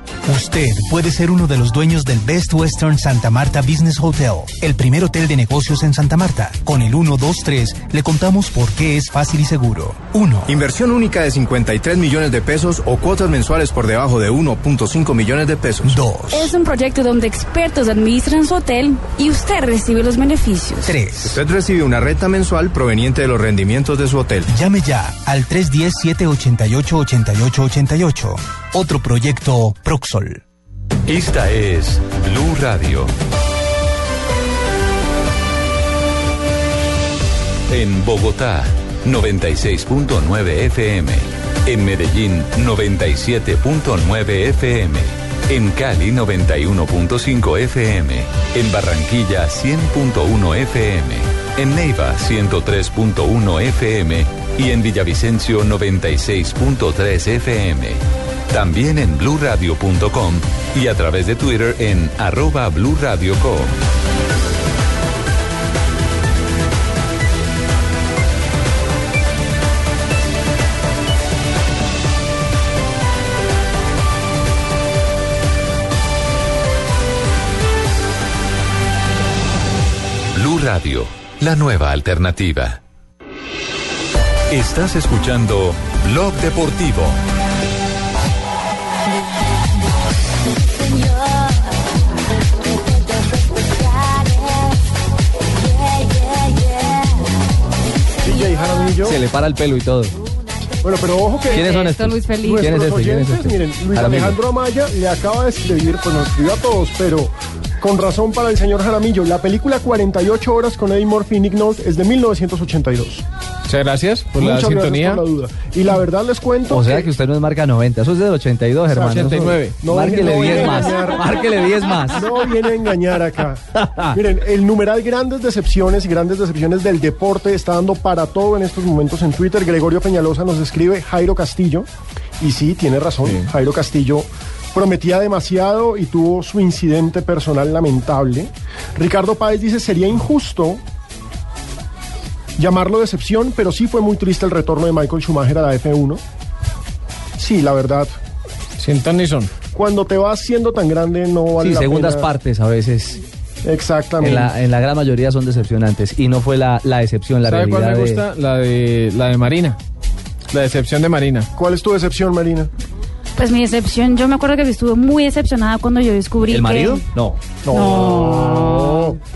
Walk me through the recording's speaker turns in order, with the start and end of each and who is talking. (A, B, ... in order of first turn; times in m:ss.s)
0:00.5-0:01.1 A
0:01.9-0:03.3 A
0:03.9-0:04.8 A
0:10.5-0:16.0 B
0:16.3-0:21.0 C
0:21.2-0:24.5 B
0:24.6-0:28.2 A
0:28.8-0:30.2 A
0:31.1-0:33.1 D
0:37.7-1:03.7 D
1:20.4-1:22.8 D
1:24.5-1:27.2 D
1:38.2-1:39.2 E
1:39.0-1:40.1 F
1:40.8-1:41.7 E
1:41.5-1:42.8 C
1:41.5-1:44.4 F
1:42.4-1:53.2 E
1:53.7-1:55.2 G
1:54.4-1:57.1 E
1:56.7-2:02.2 F
1:58.9-2:01.4 E
1:59.1-1:59.8 G
2:02.1-2:11.9 E
2:03.8-2:04.2 F
2:12.4-2:20.8 E
2:22.6-2:26.2 E
2:27.4-2:28.2 E
2:28.8-2:29.5 G
2:29.7-2:32.3 E
2:31.6-2:33.2 F
2:33.6-2:34.6 E
2:34.2-2:38.2 F
2:37.5-2:39.8 G
2:40.5-2:41.5 G
2:41.6-2:42.7 E
2:43.4-2:47.0 C
2:46.5-2:47.4 F
2:47.6-2:49.2 E
2:47.7-2:49.2 C